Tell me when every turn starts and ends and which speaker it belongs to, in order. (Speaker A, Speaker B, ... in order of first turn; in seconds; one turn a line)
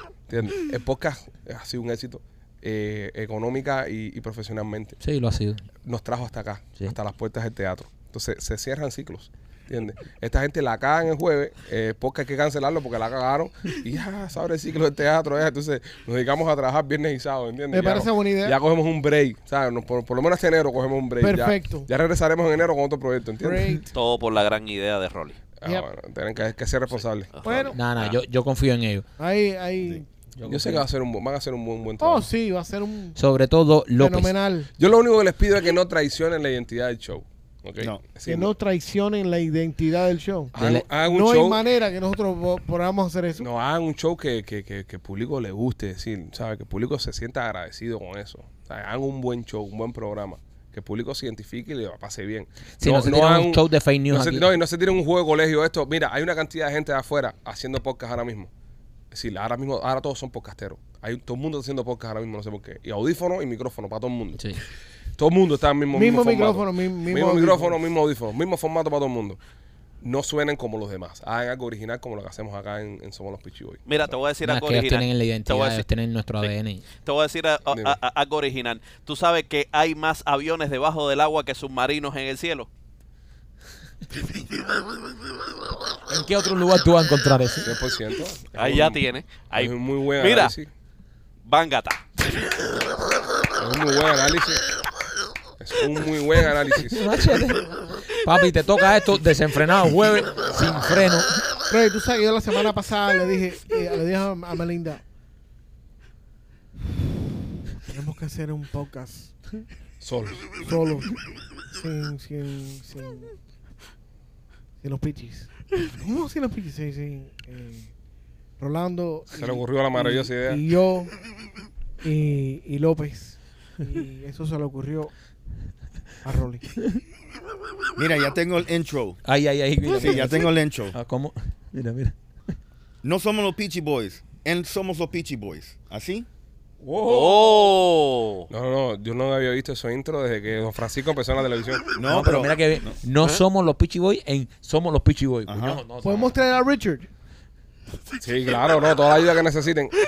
Speaker A: 0.3-5.0
Speaker B: 5.0-5.7
Speaker A: 5.8-23.8
Speaker C: 17.7-18.6
Speaker C: 21.2-21.9
Speaker C: 23.4-23.9
Speaker D: 23.9-25.4
Speaker A: 25.6-27.7
Speaker D: 27.3-28.2
Speaker C: 27.4-27.8
Speaker B: 27.7-29.1
Speaker C: 29.2-30.1
Speaker B: 30.4-30.9
Speaker A: 30.4-32.3
Speaker C: 32.0-33.2
Speaker B: 33.2-34.3
Speaker C: 34.0-34.7
Speaker A: 34.8-38.5
Speaker C: 38.3-43.5
Speaker A: 40.5-41.6
Speaker B: 40.6-40.9
Speaker A: 43.4-58.5
Speaker B: 52.8-54.5
Speaker A: 59.1-64.5
Speaker A: 65.2-69.4
Speaker C: 65.9-67.8
Speaker A: 70.0-73.8
Speaker D: 73.9-75.8
Speaker B: 74.4-76.8
Speaker D: 77.0-82.7
Speaker A: 77.7-78.0
Speaker B: 86.1-87.7
Speaker A: 87.6-89.0
Speaker D: 88.5-90.5
Speaker A: 89.6-90.7
Speaker D: 91.5-92.0
Speaker A: 93.6-94.6
Speaker A: 95.6-97.1
Speaker B: 96.8-101.4
Speaker C: 101.7-105.0
Speaker C: 107.9-109.4
Speaker A: 110.0-110.6
Speaker C: 110.5-111.2
Speaker C: 111.7-113.4
Speaker C: 114.8-117.9
Speaker C: 118.6-121.1
Speaker A: 119.3-120.6
Speaker C: 122.0-125.1
Speaker C: 126.2-126.6
Speaker E: 128.0-129.2
Speaker B: 129.2-132.2
Speaker E: 129.9-131.0
Speaker E: 133.0-136.3
Speaker B: 136.8-137.7
Speaker D: 137.0-138.5
Speaker A: 138.5-141.8
Speaker E: 141.9-143.0
Speaker B: 142.0-146.4
Speaker E: 145.5-145.8
Speaker C: 146.0-147.1
Speaker A: 148.2-150.0